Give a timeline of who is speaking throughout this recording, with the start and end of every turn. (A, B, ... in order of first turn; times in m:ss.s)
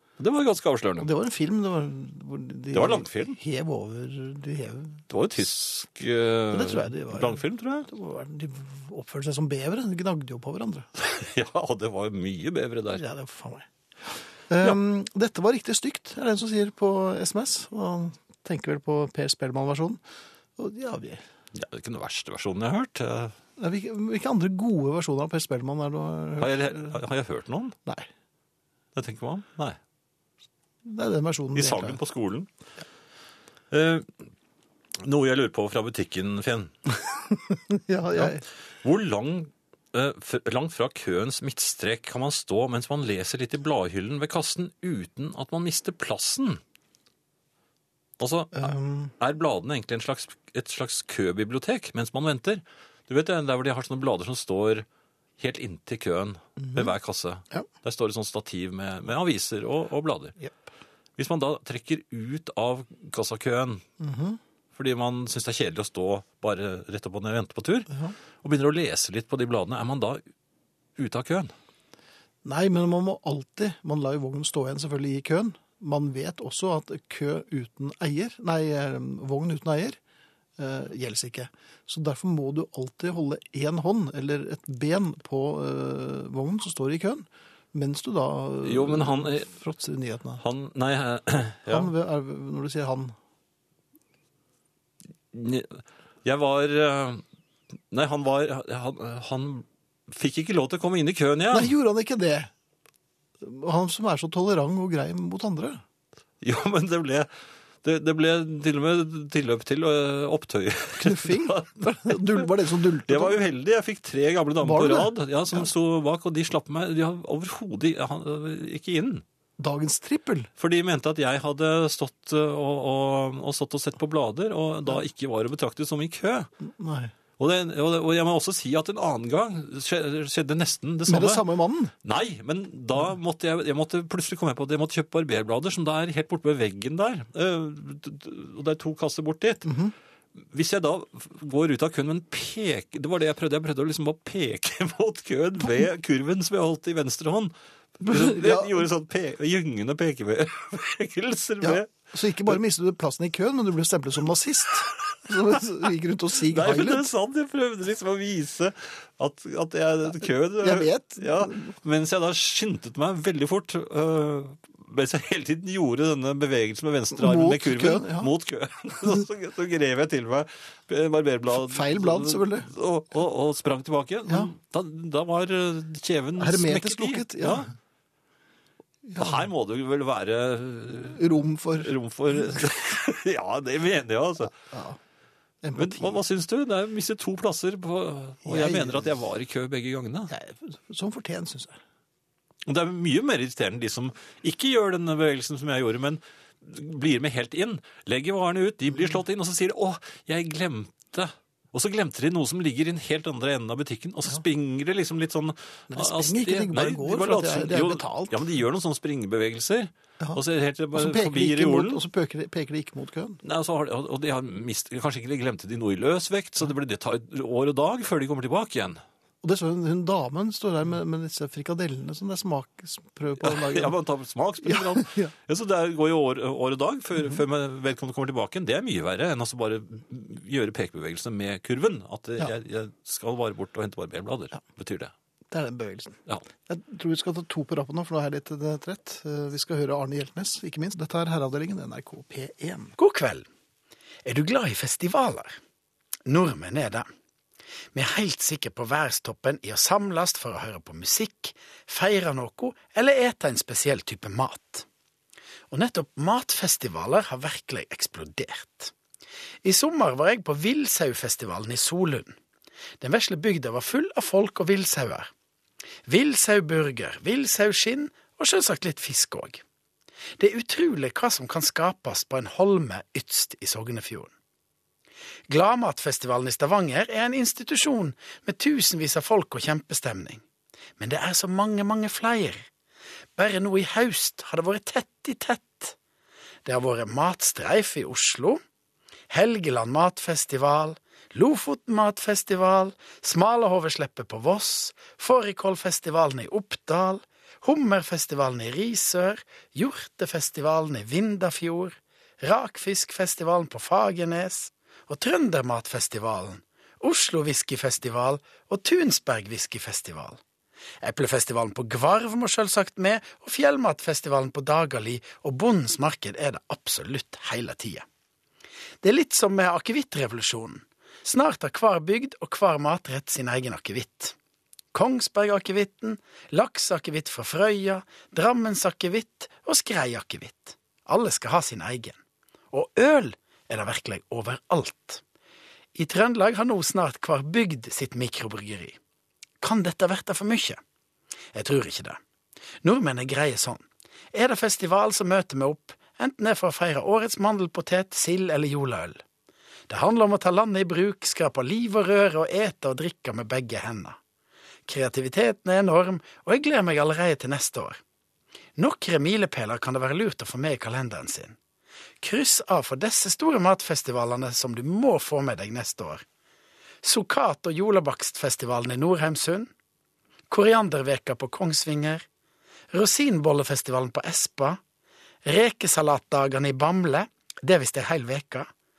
0:00.2-0:01.1 A
0:01.0-0:05.0 B
0:02.7-0:03.4 A
0:05.1-0:07.9 A
0:06.5-0:10.9 B
0:11.0-0:13.0 A
0:12.9-0:13.7 B
0:14.5-0:20.0 B
0:20.6-0:21.2 B
0:21.5-0:23.4 A
0:23.6-0:27.0 B
0:26.4-0:27.8 A
0:28.9-0:29.8 A
0:30.8-0:32.0 B
0:31.5-0:32.5 A
0:33.7-0:34.2 A
0:35.0-0:36.7 A
0:37.5-0:38.4 B
0:38.1-0:46.6 A
0:48.2-0:54.8 A
0:48.5-0:49.1 B
0:55.4-1:00.4 A
0:56.6-0:56.9 B
1:01.2-1:03.8 A
1:04.0-1:04.4 B
1:04.7-1:07.9 A
1:07.9-1:08.2 B
1:08.4-1:10.2 A
1:11.0-1:11.5 A
1:12.4-1:20.0 B
1:20.6-1:30.4 B
1:28.6-1:29.5 A
1:30.4-1:31.9 A
1:31.7-1:33.1 B
1:35.3-1:37.2 A
1:37.9-1:41.7 A
1:41.5-1:42.5 B
1:43.4-1:45.8 B
1:46.4-1:47.3 A
1:47.8-1:52.5 A
1:51.0-1:53.4 B
1:53.0-1:59.2 A
1:54.6-1:55.7 B
1:59.6-2:00.5 B
2:00.6-2:06.5 A
2:06.6-2:07.1 B
2:07.4-2:11.4 A
2:11.1-2:11.9 B
2:12.0-2:19.7 A
2:19.6-2:19.9 B
2:20.4-2:27.5 A
2:28.0-2:28.9 B
2:28.0-2:31.9 A
2:31.6-2:37.1 B
2:36.3-2:57.7 A
2:40.6-2:41.7 B
2:47.1-2:48.3 B
2:51.5-2:52.7 B
2:54.3-2:54.5 B
2:56.4-2:57.7 B
2:59.0-2:59.4 B
2:59.2-3:01.2 A
3:01.1-3:01.9 B
3:01.8-3:04.6 A
3:04.7-3:05.0 B
3:05.6-3:06.2 B
3:05.7-3:10.3 A
3:08.4-3:09.2 B
3:10.3-3:11.8 B
3:12.6-3:32.0 A
3:25.9-3:28.4 B
3:30.9-3:33.4 B
3:33.4-3:39.0 A
3:39.4-3:44.0 B
3:43.4-3:55.1 A
3:44.6-3:45.3 B
3:55.5-4:03.0 B
4:03.0-4:03.5 C
4:04.2-4:05.6 C
4:06.2-4:07.0 C
4:07.9-4:14.8 C
4:15.7-4:18.9 C
4:19.6-4:22.3 C
4:23.0-4:25.3 C
4:26.1-4:29.6 C
4:30.4-4:34.3 C
4:35.5-4:40.4 C
4:41.0-4:42.6 C
4:43.4-4:45.9 C
4:46.6-4:48.6 C
4:49.3-5:10.4 C
5:11.0-5:18.0 C
5:19.0-5:24.3 C
5:24.9-5:32.2 C
5:32.7-5:35.2 C
5:35.9-5:39.0 C
5:39.6-5:40.8 C
5:41.5-5:42.2 C
5:42.8-5:49.2 C
5:49.9-5:54.2 C
5:54.9-5:58.0 C
5:58.8-6:01.6 C
6:02.2-6:06.2 C
6:07.0-6:09.7 C
6:10.5-6:12.2 C
6:12.9-6:14.8 C
6:15.4-6:18.7 C